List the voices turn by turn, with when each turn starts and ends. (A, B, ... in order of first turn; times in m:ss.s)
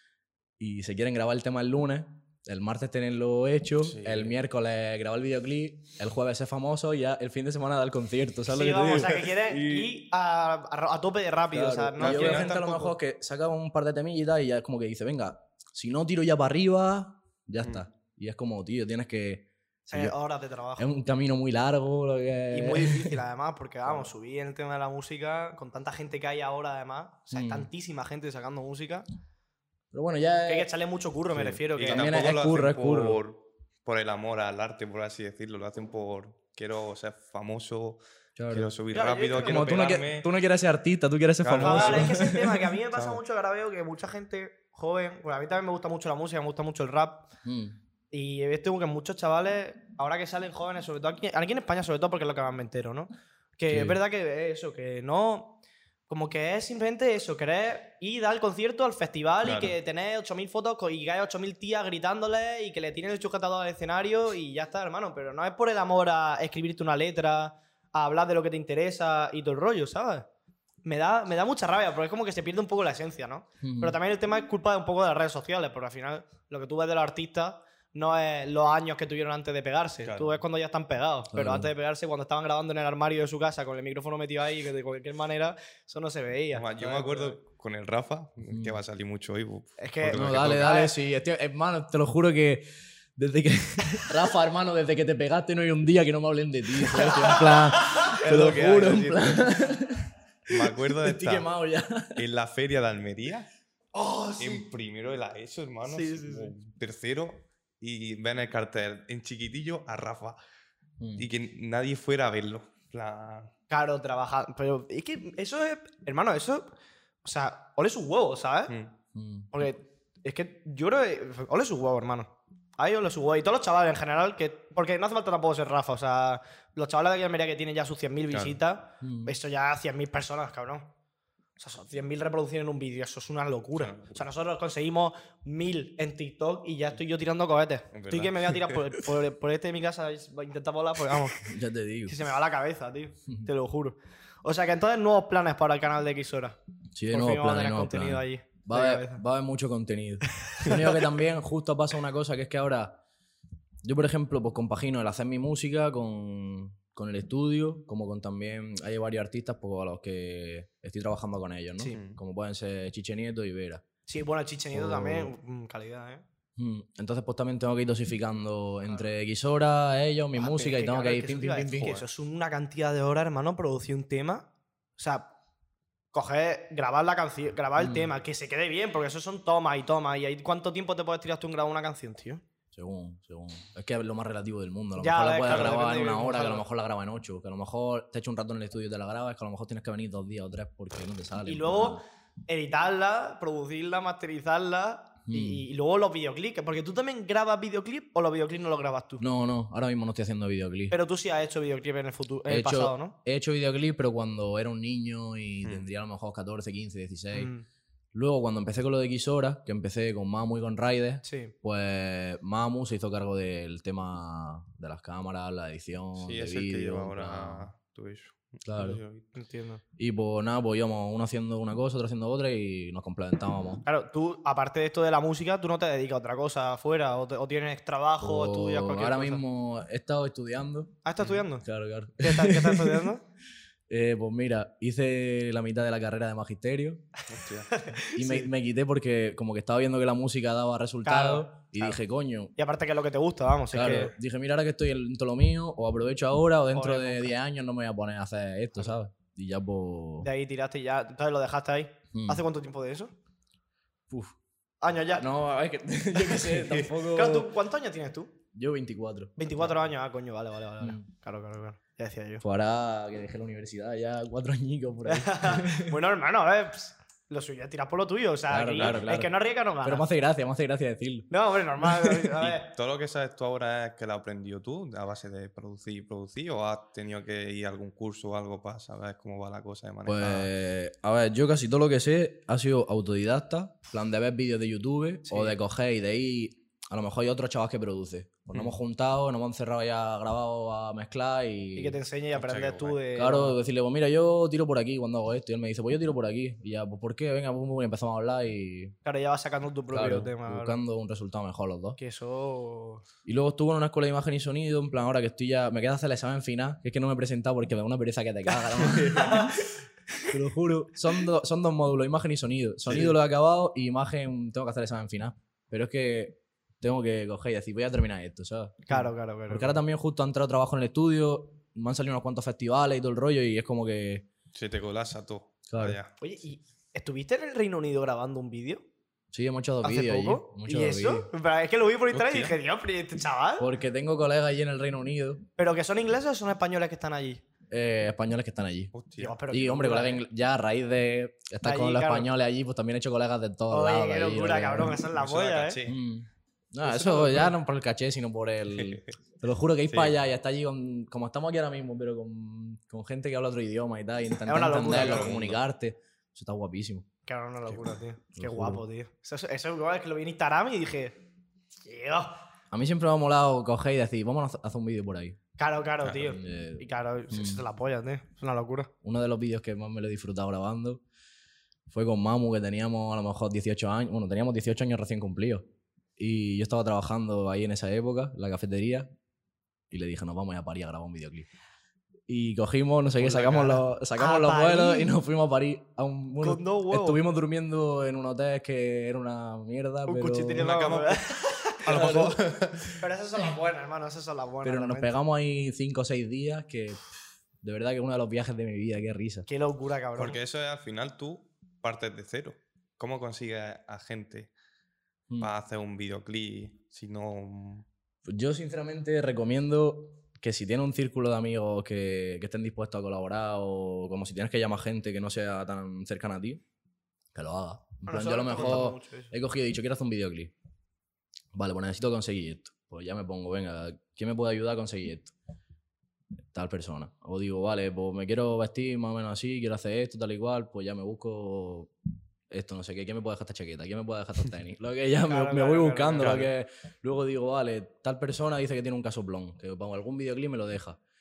0:00.6-0:09.9 A
0:03.8-0:04.4 B
0:08.5-0:12.7 C
0:11.5-0:20.2 A
0:12.0-0:12.9 B
0:19.9-0:20.9 C
0:20.8-0:23.2 A
0:22.5-0:29.1 C
0:27.3-0:27.7 A
0:29.9-0:30.7 A
0:30.5-0:32.4 C
0:31.4-0:33.2 A
0:31.5-0:40.3 B
0:38.4-0:38.7 A
0:38.9-0:40.0 C
0:39.4-0:42.6 A
0:41.4-0:42.2 B
0:41.6-0:47.3 C
0:42.9-0:43.2 B
0:47.4-0:47.8 A
0:48.1-1:10.3 C
0:53.7-0:54.0 A
0:59.4-0:59.8 B
1:10.8-1:27.4 C
1:13.6-1:14.0 A
1:20.0-1:20.4 B
1:21.3-1:21.7 A
1:26.5-1:30.8 B
1:28.5-1:28.8 A
1:29.8-1:31.0 C
1:30.1-1:42.2 A
1:36.8-1:38.4 C
1:38.0-1:39.6 B
1:40.5-1:41.5 B
1:42.2-1:43.5 B
1:43.9-1:44.6 C
1:44.4-1:50.4 B
1:45.9-1:46.5 C
1:51.0-1:51.3 A
1:51.2-1:53.5 B
1:53.7-1:56.7 C
1:57.2-1:58.7 C
1:59.1-1:59.6 A
1:59.5-2:10.9 C
2:08.3-2:08.6 B
2:09.0-2:09.4 A
2:11.6-2:21.4 C
2:13.8-2:14.2 B
2:17.9-2:18.9 B
2:21.4-2:22.2 A
2:22.1-2:26.6 C
2:27.0-2:33.0 A
2:27.1-2:29.2 C
2:30.5-2:31.1 C
2:33.8-2:43.8 A
2:44.1-2:46.2 C
2:44.7-2:45.3 A
2:46.6-2:52.0 A
2:50.4-2:55.3 C
2:56.1-3:02.4 C
2:57.8-2:58.1 A
3:02.7-3:12.0 A
3:05.0-3:06.6 C
3:11.4-3:19.2 C
3:15.3-3:15.6 A
3:19.2-3:21.0 A
3:20.9-3:23.2 C
3:22.5-3:27.5 A
3:27.3-3:27.7 C
3:28.1-3:37.7 A
3:31.2-3:31.5 C
3:36.2-3:39.3 B
3:38.6-3:39.0 A
3:39.4-3:39.8 C
3:40.0-3:43.8 A
3:43.8-3:49.4 C
3:48.2-3:51.0 A
3:51.0-3:51.7 C
3:51.6-3:53.1 A
3:52.2-3:53.2 C
3:53.9-3:57.0 A
3:57.3-3:57.7 B
3:57.7-3:58.5 C
3:58.1-4:02.5 A
4:01.0-4:02.0 C
4:02.6-4:04.1 C
4:03.7-4:10.3 A
4:06.7-4:07.4 C
4:10.2-4:13.1 C
4:12.1-4:12.4 A
4:14.1-4:14.4 A
4:14.8-4:15.3 C
4:15.1-4:17.5 A
4:16.6-4:16.9 B
4:17.1-4:18.4 C
4:18.5-4:19.4 A
4:19.4-4:22.4 C
4:20.8-4:21.1 A
4:22.4-4:26.0 A
4:25.0-4:30.1 C
4:28.5-4:31.3 A
4:31.3-4:32.7 C
4:31.8-4:32.4 A
4:32.4-4:40.5 B
4:40.1-4:52.0 A
4:45.3-4:45.6 C
4:51.8-4:53.6 C
4:52.4-4:53.0 B
4:53.2-4:59.0 A
4:59.0-5:00.8 C
4:59.9-5:02.0 A
5:02.0-5:03.0 C
5:03.2-5:09.6 A
5:08.5-5:09.6 C
5:08.9-5:09.3 B
5:10.3-5:24.3 A
5:12.9-5:13.1 B
5:18.9-5:19.8 C
5:24.5-5:26.2 B
5:25.7-5:26.0 A
5:26.2-5:28.8 C
5:29.3-5:31.3 A
5:29.8-5:33.7 C
5:32.1-5:32.5 B
5:33.6-5:35.5 A
5:35.6-5:37.4 C
5:37.7-5:38.9 A
5:38.9-5:39.4 B
5:39.2-5:40.2 C
5:39.5-5:45.0 A
5:41.6-5:42.3 C
5:43.7-5:45.8 C
5:45.1-5:46.0 B
5:45.8-5:57.1 A
5:46.8-5:47.6 C
5:48.8-5:49.1 B
5:49.9-5:50.2 B
5:54.5-5:55.4 C
5:54.8-5:55.6 B
5:57.3-6:01.2 C
5:58.4-5:58.8 A
6:01.8-6:02.3 C
6:02.7-6:05.4 A
6:05.6-6:08.9 C
6:06.2-6:07.6 A
6:09.0-6:11.0 A
6:11.9-6:15.7 A
6:16.2-6:19.1 A
6:19.9-6:21.5 A
6:22.3-6:30.7 A
6:23.2-6:23.6 C
6:23.2-6:23.8 B
6:24.2-6:25.2 C
6:26.4-6:27.2 C
6:30.1-6:32.4 C
6:30.6-6:31.2 B
6:31.8-6:33.0 B
6:31.9-6:32.4 A
6:33.0-6:35.1 C
6:34.6-6:37.1 A
6:37.6-6:39.5 A
6:39.5-6:40.4 C
6:40.2-6:44.5 B
6:45.4-6:47.9 B
6:48.3-6:56.6 A
6:57.3-7:00.5 A
6:58.1-6:59.3 C
7:01.5-7:05.3 A
7:06.5-7:11.9 A
7:12.5-7:21.0 A
7:15.3-7:16.5 C
7:16.2-7:16.5 B